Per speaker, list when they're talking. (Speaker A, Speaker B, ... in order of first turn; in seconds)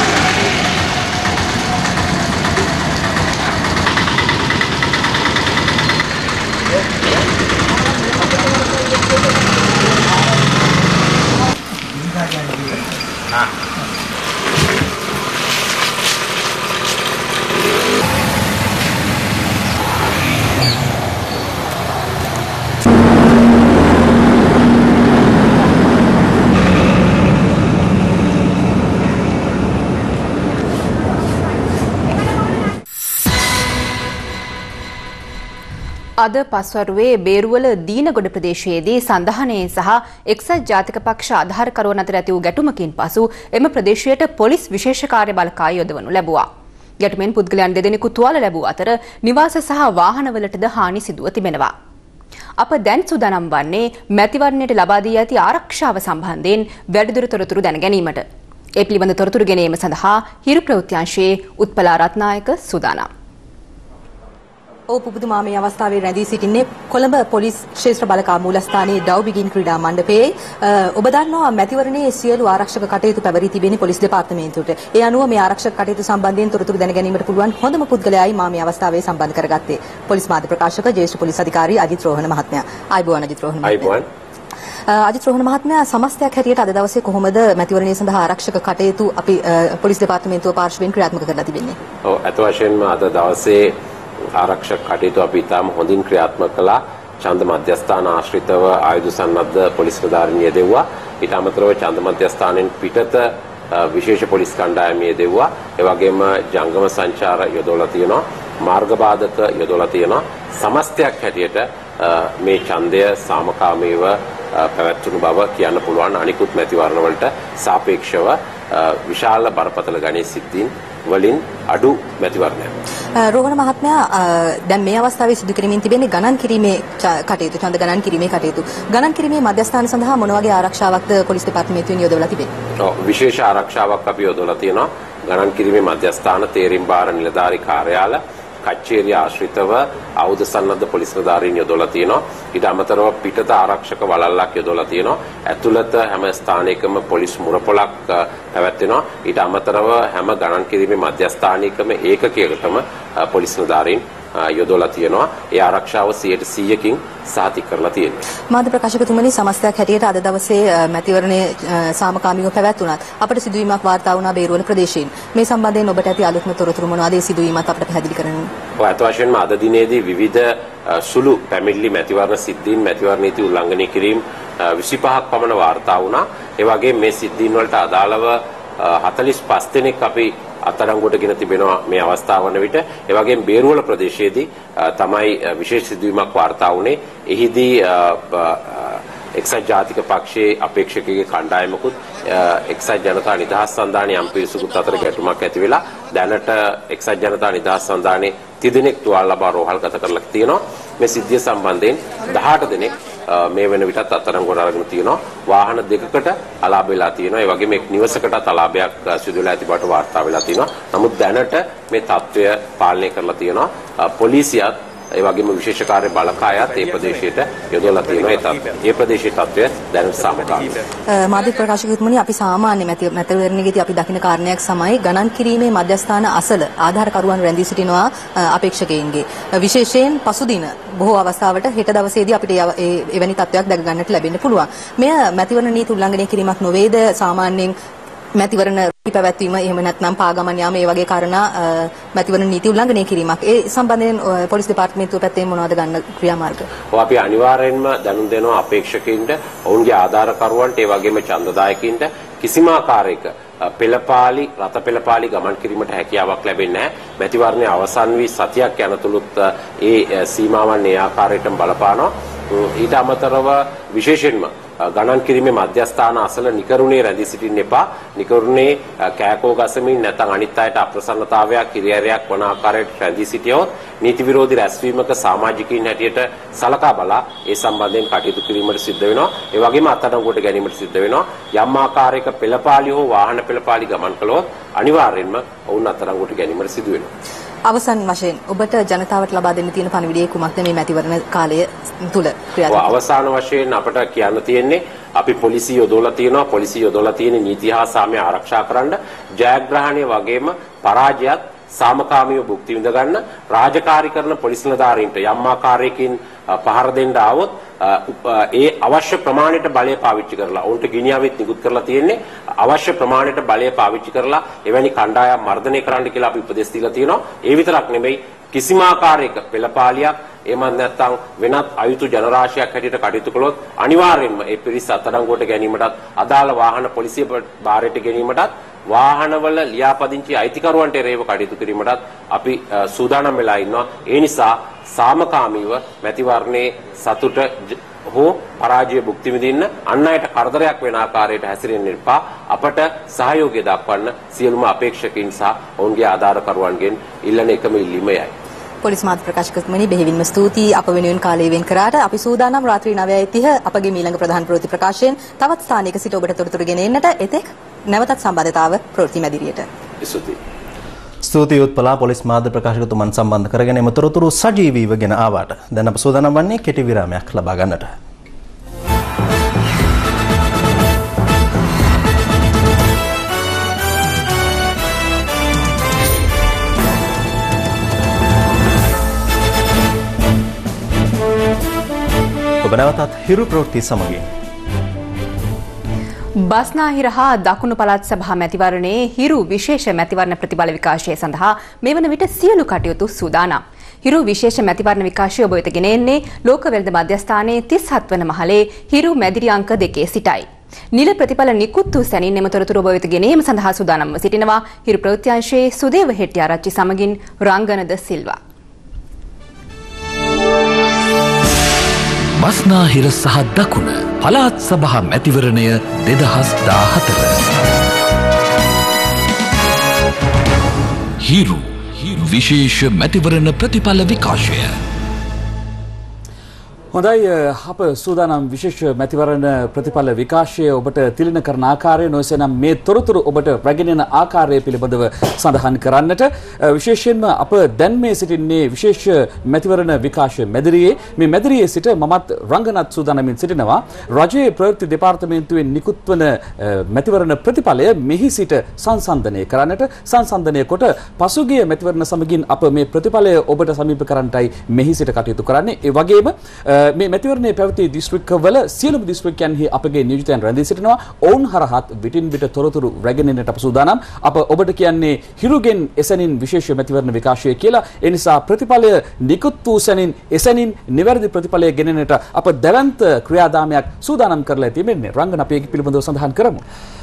Speaker A: 36.2-46.5, 47.0-51.7, 52.6-58.2, 58.8-63.1, 386.5-408.4
Speaker B: 64.9-83.9, 84.9-91.8, 123.1-132.5, 158.5-168.5, 221.1-237.7, 238.3-246.7, 287.7-292.9, 348.8-359.7
Speaker C: 83.6-84.0, 92.0-122.7, 132.8-158.2, 168.8-220.8, 246.9-287.1, 292.7-348.3, 360.0-360.4
Speaker D: 361.2-367.9, 382.6-384.2
Speaker E: 412.4-417.5, 421.2-424.8
Speaker F: 426.9-476.6